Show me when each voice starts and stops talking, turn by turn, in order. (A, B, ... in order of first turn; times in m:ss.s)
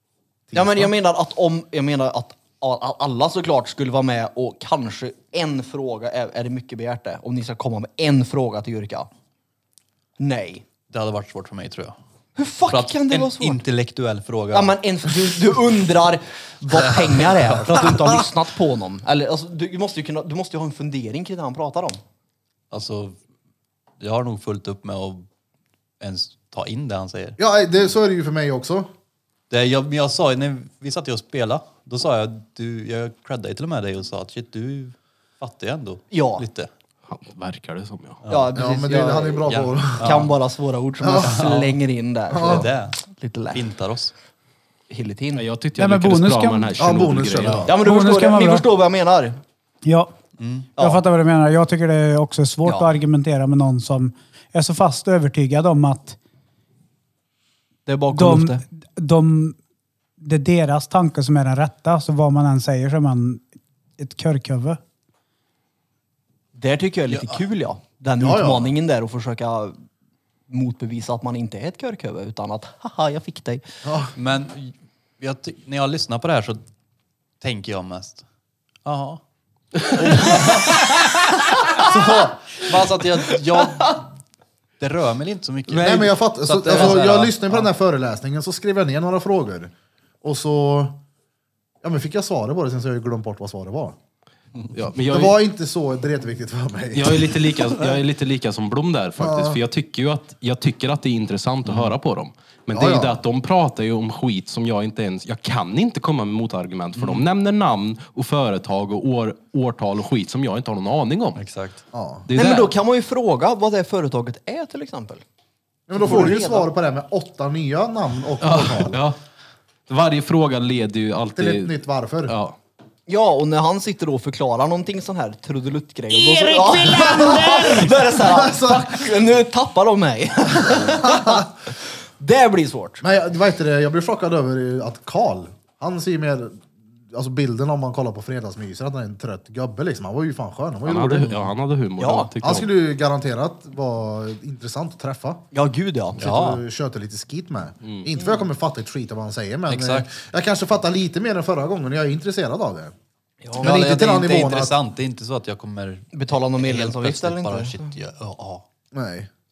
0:00.5-0:00.9 A
0:00.5-0:09.1 B
0:10.2-0:10.6 B
0:10.9-0:12.0 C
0:12.4-0:13.6 B
0:12.7-0:14.8 C
0:14.5-0:22.0 B
0:16.7-0:18.2 C
0:22.7-0:23.2 C
0:24.0-0:25.3 C
0:26.0-0:27.4 C
0:27.4-0:28.9 A
0:29.5-0:36.7 C
0:36.1-0:36.5 B
0:37.1-0:38.2 D
0:38.2-0:38.5 C
0:38.3-0:43.7 B
0:38.6-0:40.3 A
0:39.5-0:40.3 C
0:41.0-0:41.4 A
0:41.1-0:41.8 C
0:42.3-0:42.7 A
0:42.4-0:43.0 C
0:43.5-0:44.1 C
0:44.9-0:45.4 B
0:45.4-0:47.7 D
0:45.8-0:46.8 E
0:46.8-0:47.7 A
0:47.6-0:49.4 B
0:47.8-0:48.7 E
0:49.8-0:50.1 E
0:50.4-0:50.7 C
0:50.8-0:51.0 B
0:50.8-0:56.2 E
0:52.6-0:52.9 B
0:57.9-0:58.6 B
0:58.1-0:59.6 E
1:00.2-1:03.4 E
1:04.0-1:04.8 E
1:06.6-1:09.8 B
1:07.1-1:07.4 C
1:08.2-1:08.7 A
1:10.5-1:13.6 B
1:13.8-1:14.1 A
1:14.1-1:16.6 C
1:17.4-1:18.2 C
1:18.8-1:19.2 C
1:19.9-1:20.8 C
1:21.8-1:24.1 C
1:22.0-1:22.2 A
1:24.8-1:27.7 C
1:25.7-1:31.0 A
1:31.8-1:34.0 A
1:34.7-1:35.4 D
1:35.1-1:37.3 A
1:36.9-1:51.4 D
1:39.2-1:39.6 A
1:41.7-1:41.9 C
1:42.7-1:43.2 A
1:47.0-1:47.2 C
1:51.4-1:51.8 C
1:51.9-1:52.3 A
1:52.3-1:52.7 D
1:52.4-1:55.2 B
1:55.9-1:59.0 A
1:55.9-1:56.7 B
1:58.4-1:59.2 D
1:59.9-2:01.8 D
2:01.4-2:02.4 A
2:02.3-2:02.6 D
2:03.1-2:13.0 B
2:06.6-2:09.1 A
2:10.7-2:11.5 A
2:13.0-2:21.3 A
2:20.9-2:22.7 D
2:22.0-2:22.3 B
2:22.4-2:25.4 A
2:25.5-2:26.3 B
2:26.2-2:26.6 C
2:26.2-2:32.9 A
2:29.7-2:30.1 C
2:33.4-2:33.8 B
2:33.6-2:38.6 C
2:33.6-2:34.7 A
2:36.1-2:37.9 B
2:38.9-2:39.3 A